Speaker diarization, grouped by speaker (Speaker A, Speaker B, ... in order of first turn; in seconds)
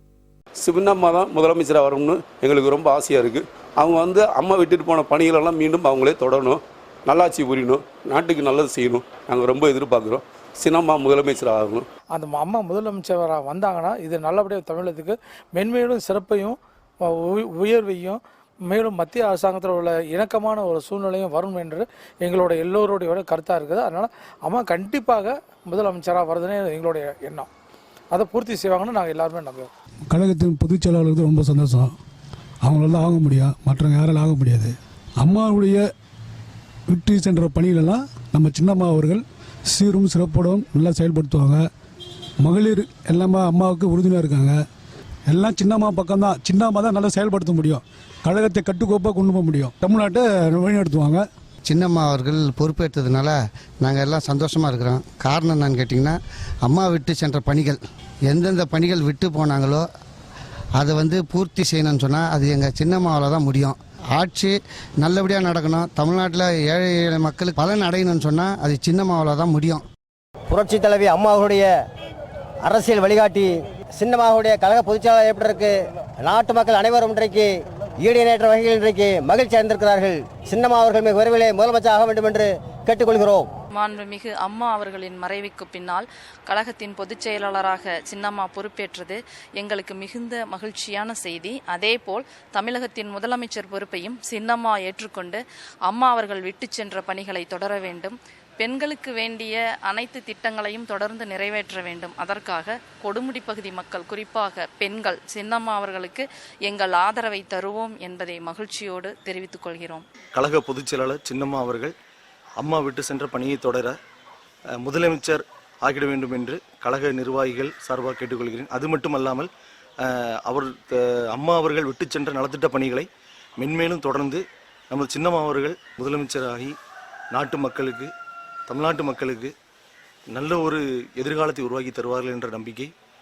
Speaker A: 0.6-11.8
Speaker B: 12.1-16.6, 17.1-27.5, 28.1-29.7
Speaker C: 30.1-31.9, 32.6-35.8, 36.9-41.6, 42.4-44.5, 45.3-51.2
Speaker D: 51.6-59.8, 60.8-69.8
Speaker E: 70.5-71.7, 72.6-83.5
Speaker F: 83.7-110.0
Speaker G: 110.3-111.9, 112.6-114.0, 114.8-119.5, 120.0-126.8, 127.3-128.1, 128.7-129.5, 130.3-132.9